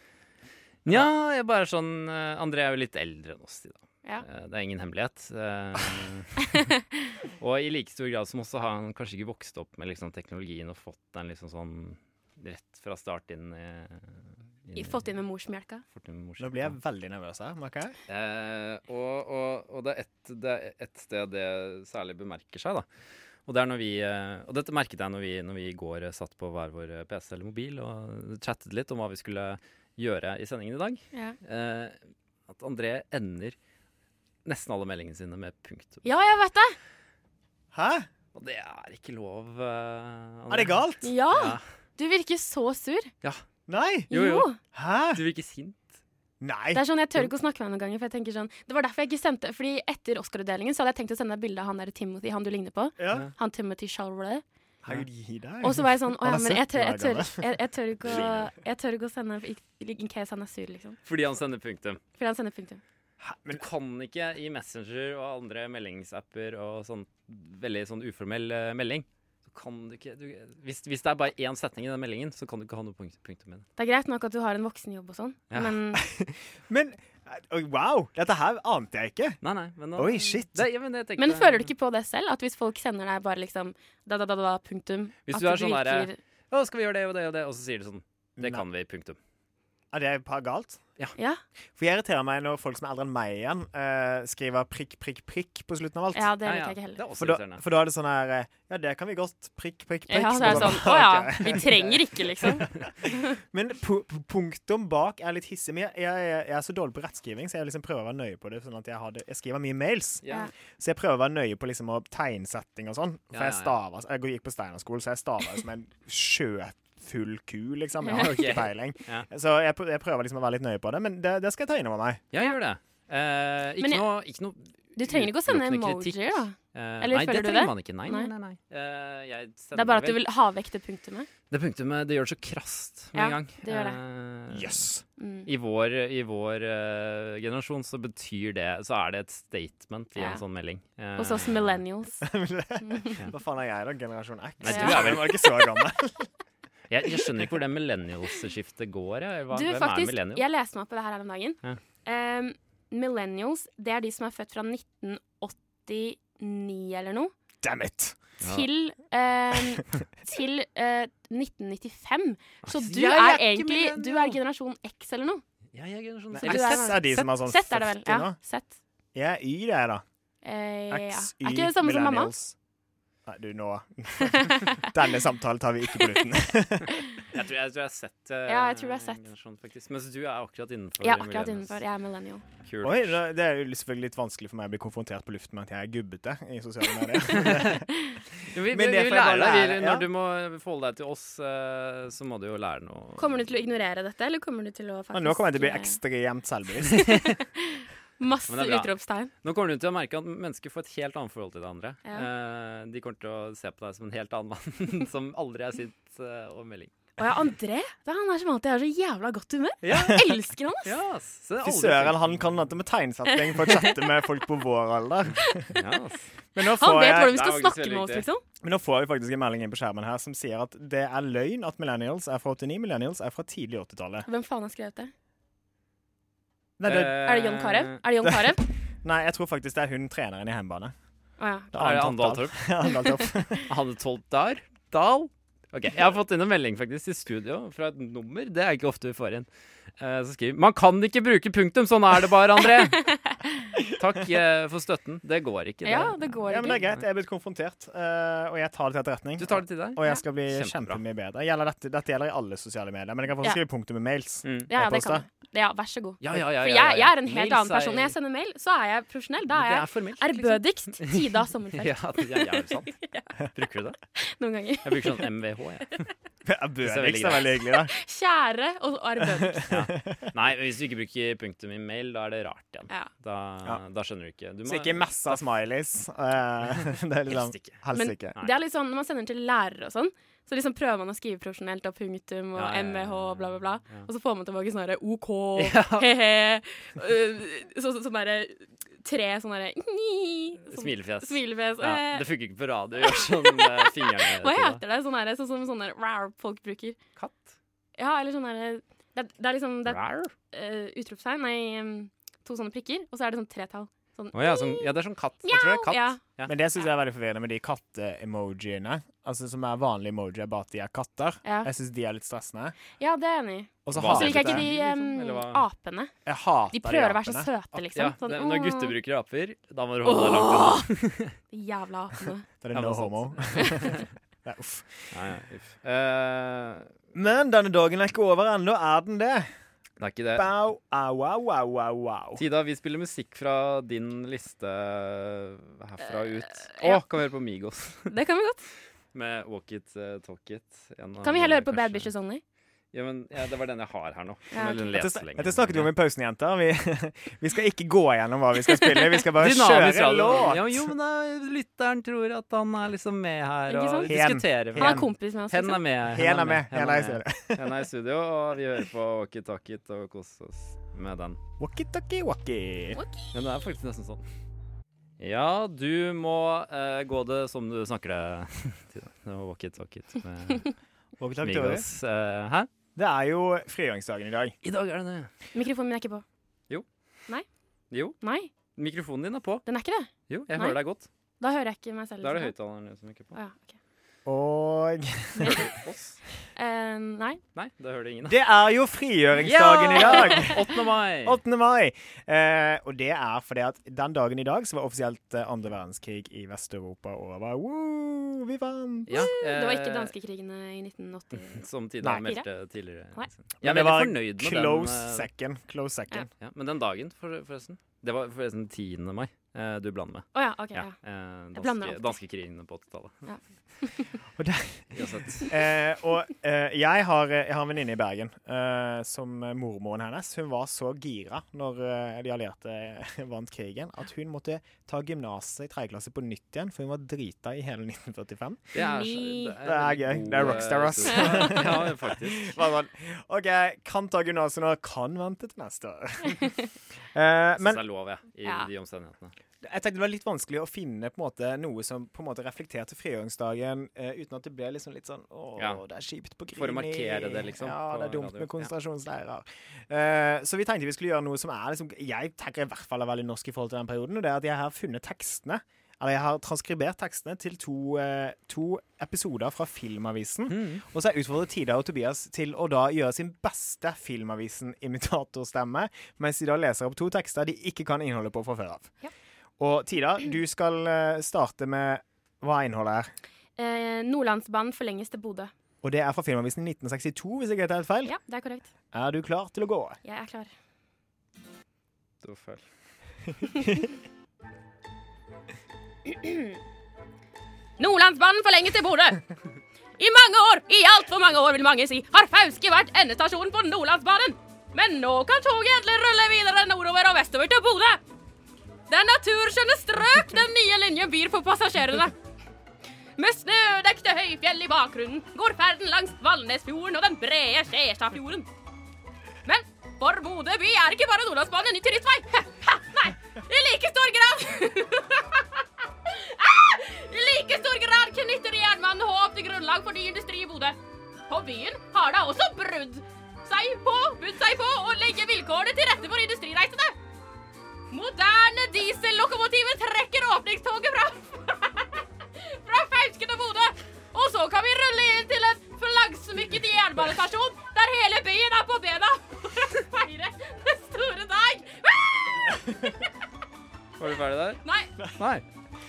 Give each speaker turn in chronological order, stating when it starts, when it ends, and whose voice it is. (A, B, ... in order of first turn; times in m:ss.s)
0:00.8-0:06.7 A
0:06.4-0:07.0 B
0:07.4-0:15.0 A
0:14.8-0:15.8 B
0:15.9-0:16.8 A
0:16.4-0:18.0 C
0:18.1-0:22.9 A
0:23.5-0:32.0 A
0:32.5-0:33.6 A
0:34.4-0:36.0 A
0:36.0-0:36.8 B
0:37.7-0:38.1 C
0:38.3-0:41.6 A
0:40.5-0:41.1 C
0:41.0-0:43.1 B
0:43.7-0:44.1 C
0:44.1-0:44.5 A
0:44.1-0:44.6 B
0:44.6-0:45.2 C
0:45.1-0:45.9 A
0:46.4-0:46.8 C
0:46.7-0:54.4 B
0:53.0-0:53.3 C
0:54.8-0:57.6 C
0:55.6-1:01.0 B
0:58.0-0:58.5 A
1:01.0-1:02.0 A
1:02.2-1:02.8 B
1:03.2-1:03.6 C
1:03.5-1:13.7 A
1:13.8-1:16.0 B
1:15.5-1:15.8 A
1:15.9-1:19.4 C
1:19.4-1:21.7 A
1:20.0-1:20.6 C
1:21.2-1:26.2 B
1:25.3-1:29.2 A
1:28.4-1:28.6 C
1:29.9-1:30.8 C
1:31.2-1:31.4 B
1:31.8-1:36.3 C
1:36.1-1:37.0 B
1:36.4-1:37.6 A
1:37.2-2:02.2 C
1:40.1-1:42.7 B
1:40.4-1:41.0 A
1:50.2-1:50.5 A
1:53.3-1:53.7 A
1:58.1-1:59.3 A
2:02.3-2:10.2 A
2:03.8-2:04.0 B
2:05.0-2:08.3 B
2:09.8-2:11.3 B
2:11.5-2:14.9 A
2:13.1-2:14.0 B
2:14.5-2:15.0 C
2:15.2-2:15.5 B
2:15.5-2:21.8 A
2:20.2-2:20.4 B
2:21.2-2:22.2 B
2:22.2-2:26.3 C
2:22.8-2:23.2 B
2:24.6-2:25.5 A
2:24.7-2:25.1 B
2:26.9-2:30.4 A
2:27.1-2:27.4 C
2:29.5-2:37.3 B
2:37.6-2:38.2 C
2:38.4-2:38.7 A
2:38.4-2:45.4 B
2:42.6-2:44.4 A
2:45.7-2:47.0 A
2:46.3-2:48.4 C
2:46.4-2:48.8 B
2:49.2-2:50.0 C
2:50.4-2:52.3 B
2:50.9-2:52.6 C
2:53.3-2:56.9 C
2:54.2-2:54.9 B
2:56.9-2:57.2 B
2:57.3-3:01.8 A
2:58.5-2:59.2 B
3:01.0-3:02.4 B
3:02.6-3:03.1 A
3:02.8-3:07.9 C
3:07.3-3:07.8 A
3:07.7-3:08.2 B
3:08.5-3:13.4 A
3:08.6-3:10.1 C
3:13.2-3:16.0 B
3:15.1-3:17.2 C
3:16.9-3:17.3 A
3:17.0-3:19.3 B
3:18.5-3:18.9 A
3:19.4-3:26.9 A
3:27.2-3:31.0 B
3:29.8-3:30.3 A
3:30.0-3:30.2 C
3:30.8-3:32.7 A
3:31.6-3:35.8 C
3:33.3-3:34.1 B
3:35.4-3:35.9 B
3:35.8-3:36.3 A
3:36.6-3:37.4 C
3:36.6-3:38.4 B
3:37.3-3:38.3 A
3:38.6-3:44.3 C
3:44.3-3:45.1 B
3:46.8-3:47.2 C
3:46.8-3:48.0 A
3:47.1-3:48.6 B
3:48.2-3:50.9 C
3:51.4-3:51.7 B
3:51.7-3:53.7 C
3:51.8-3:52.6 A
3:52.8-3:53.3 B
3:53.7-3:59.5 A
4:00.0-4:03.1 A
4:02.9-4:03.7 B
4:03.8-4:06.2 A
4:05.8-4:06.8 B
4:06.5-4:15.3 C
4:09.4-4:11.0 A
4:14.4-4:14.7 A
4:14.7-4:23.4 B
4:16.2-4:18.2 A
4:19.5-4:23.0 A
4:23.5-4:24.0 A
4:24.2-4:25.3 B
4:24.8-4:26.1 A
4:26.4-4:27.9 C
4:26.8-4:27.6 A
4:27.7-4:29.7 B
4:29.2-4:30.3 C
4:29.7-4:35.4 A
4:34.6-4:38.4 C
4:37.3-4:37.8 A
4:37.9-4:52.3 B
4:42.6-4:44.1 A
4:45.6-4:46.1 A
4:50.7-4:54.8 A
4:53.0-4:57.0 B
4:57.2-4:57.6 A
4:58.0-5:00.0 B
4:59.9-5:00.3 A
5:00.5-5:06.2 B
5:04.3-5:06.5 A
5:05.5-5:05.8 C
5:06.4-5:12.8 C
5:11.4-5:11.7 B
5:13.0-5:16.1 B
5:13.8-5:14.7 C
5:13.9-5:15.7 A
5:16.3-5:17.5 C
5:16.7-5:19.0 B
5:17.8-5:21.3 A
5:20.0-5:20.9 B
5:21.5-5:22.5 B
5:22.6-5:25.2 C
5:22.7-5:24.1 A
5:23.6-5:23.9 B
5:25.1-5:26.9 A
5:27.1-5:29.5 C
5:30.0-5:30.5 A
5:30.4-5:32.4 C
5:32.4-5:38.1 A
5:36.6-5:37.0 B
5:38.1-5:38.7 B
5:39.1-5:42.1 A
5:41.2-5:42.4 B
5:42.9-5:45.9 A
5:44.5-5:44.8 B
5:44.9-5:50.9 C
5:48.7-5:49.2 B
5:49.4-6:01.4 A
5:53.7-5:54.2 B
5:54.1-5:55.1 C
5:54.8-5:55.8 B
5:56.0-5:57.8 C
6:01.6-6:03.0 C
6:03.0-6:03.3 B
6:03.3-6:04.2 A
6:05.2-6:10.7 A
6:11.2-6:11.9 C
6:11.4-6:12.7 A
6:13.0-6:14.6 C
6:14.6-6:15.3 A
6:15.5-6:16.2 B
6:17.9-6:18.2 A
6:18.2-6:18.5 B
6:18.8-6:19.6 A
6:19.7-6:20.8 B
6:20.3-6:21.1 A
6:21.4-6:22.5 B
6:22.2-6:23.4 A
6:23.3-6:23.8 B
6:24.2-6:25.6 C
6:25.4-6:25.7 B
6:25.4-6:26.2 A
6:26.6-6:27.4 B
6:27.6-6:28.4 A
6:28.3-6:30.7 C
6:29.4-6:31.4 A
6:30.0-6:30.6 B
6:31.2-6:39.3 C
6:39.1-6:40.1 A
6:39.1-6:41.6 B
6:41.4-6:45.3 A
6:42.2-6:42.5 B
6:43.6-6:46.3 C
6:46.4-6:53.3 A
6:50.4-6:51.0 B
6:51.6-6:52.2 B
6:53.3-6:54.2 B
6:54.4-7:08.8 C
6:54.9-6:55.6 A
7:08.7-7:12.6 A
7:08.8-7:09.6 B
7:09.6-7:16.5 C
7:11.1-7:11.6 B
7:17.1-7:17.8 C
7:17.6-7:19.3 A
7:18.4-7:18.7 B
7:19.6-7:48.9 C
7:26.6-7:28.7 A
7:40.5-7:40.8 A
7:49.6-7:53.1 C
7:53.6-7:55.5 B
7:55.8-7:58.1 C
7:58.0-7:58.7 B
7:58.9-8:00.0 C
8:00.0-8:00.5 B
8:02.2-8:02.6 A
8:06.1-8:06.6 B
8:07.8-8:09.2 B
8:10.0-8:18.0 B
8:18.9-8:22.2 B
8:23.2-8:28.5 B
8:29.4-8:47.0 B
8:47.9-9:03.0 B
9:04.0-9:05.4 A
9:04.6-9:04.9 B